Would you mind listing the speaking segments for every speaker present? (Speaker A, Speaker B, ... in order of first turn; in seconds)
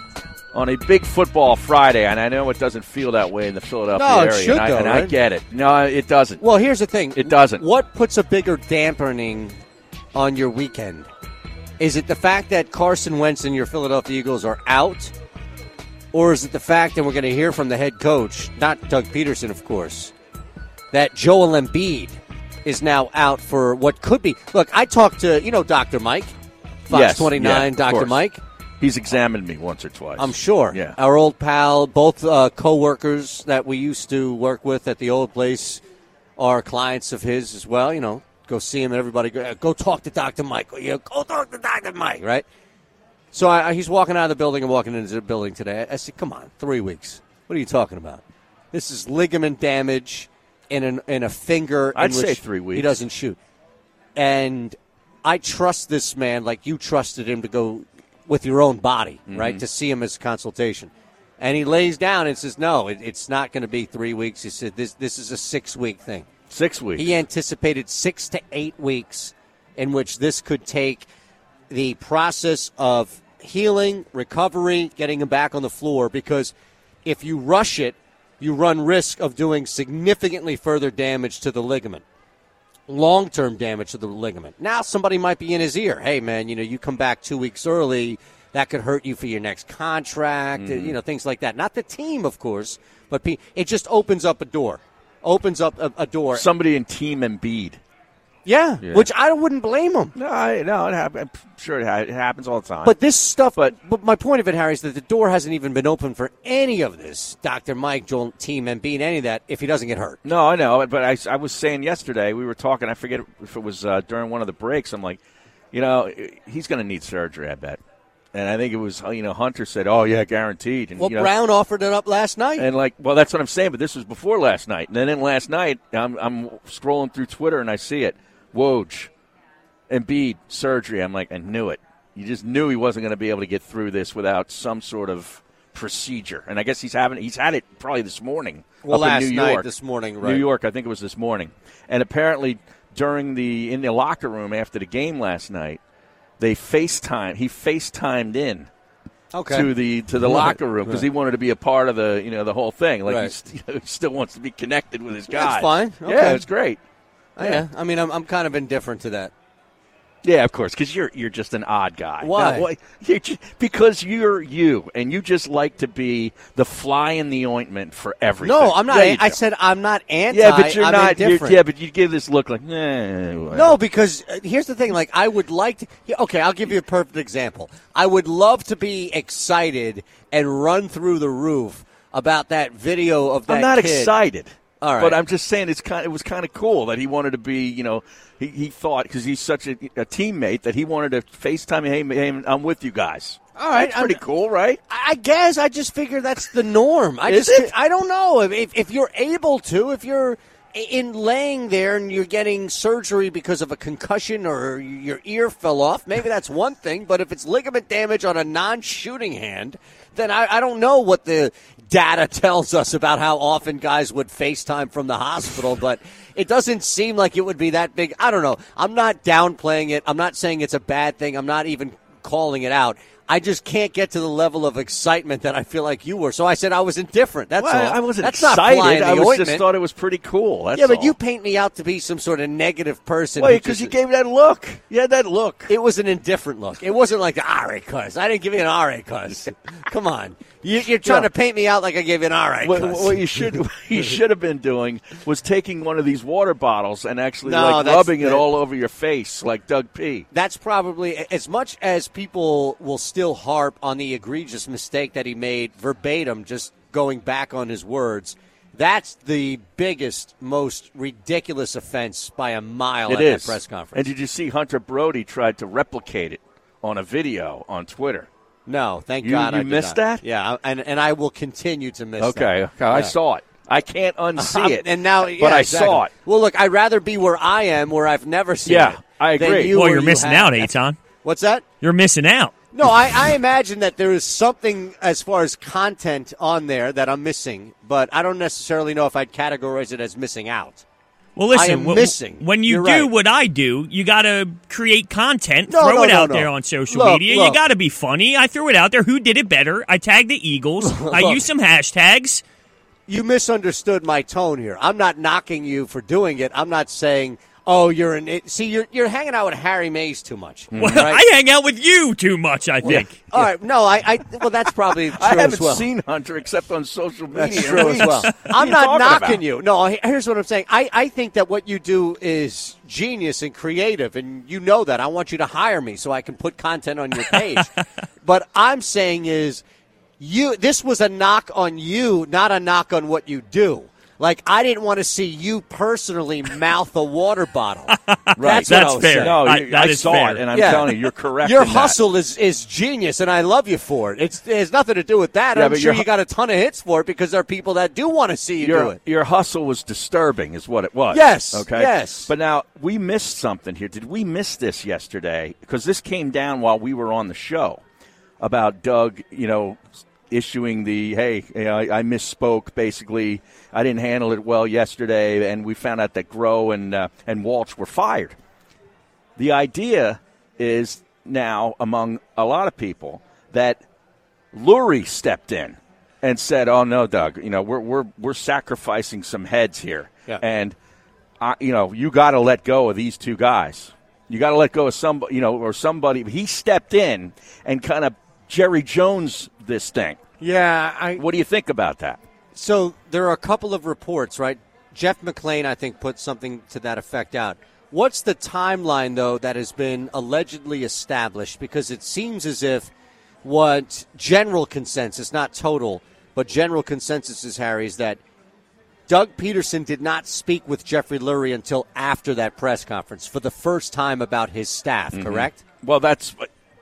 Speaker A: 0.5-6.4, 7.2-7.6, 26.9-28.2, 28.8-31.0, 51.9-53.0, 59.3-59.6, 66.5-67.2, 90.5-91.0, 96.3-97.8, 98.8-99.1, 100.1-103.0, 110.2-115.2, 115.7-117.8, 118.3-121.3, 122.6-129.1, 129.9-139.7, 140.2-145.8, 146.4-148.7, 149.5-156.8, 157.4-157.6, 160.2-169.4, 170.3-173.8, 183.5-194.8, 197.3-197.7, 227.6-231.2, 233.4-235.7, 241.0-241.3, 242.6-250.2, 263.1-268.3, 269.2-270.2, 272.2-276.1, 278.6-279.8, 310.7-311.1, 315.0-319.4, 338.4-342.0, 345.5-346.1, 348.6-357.8, 358.4-368.4, 369.4-373.8, 374.5-380.7, 381.4-390.2, 391.2-392.2, 415.1-416.5
Speaker B: 3.9-5.1, 6.4-9.6, 10.1-11.1, 11.8-15.1, 16.1-20.1, 20.9-26.3, 26.9-28.4, 30.2-35.8, 36.4-42.4, 43.3-48.2, 48.7-53.4, 54.1-66.3, 67.0-71.1, 71.7-76.5, 77.0-82.0, 82.9-96.5, 98.5-100.1, 102.8-110.2, 121.0-122.7, 138.8-140.4, 149.3-151.0, 153.1-153.3, 155.3-156.4, 157.4-159.3, 162.2-162.7, 168.4-171.6, 173.5-184.1, 184.8-185.2, 193.6-194.2, 194.9-229.6, 230.7-233.9, 235.7-243.6, 247.4-248.5, 250.3-264.1, 268.7-273.1, 274.4-280.7, 281.2-281.6, 282.7-290.8, 291.5-293.1, 295.7-297.6, 300.8-301.4, 303.1-311.2, 312.8-315.9, 317.3-327.7, 328.2-329.6, 330.2-339.5, 340.5-349.0, 351.1-352.3, 390.4-391.2, 392.5-402.9, 403.4-408.2, 409.1-415.6
Speaker C: 279.6-281.0, 281.8-282.5, 291.4-302.4, 310.8-313.4, 317.6-318.5, 337.9-341.0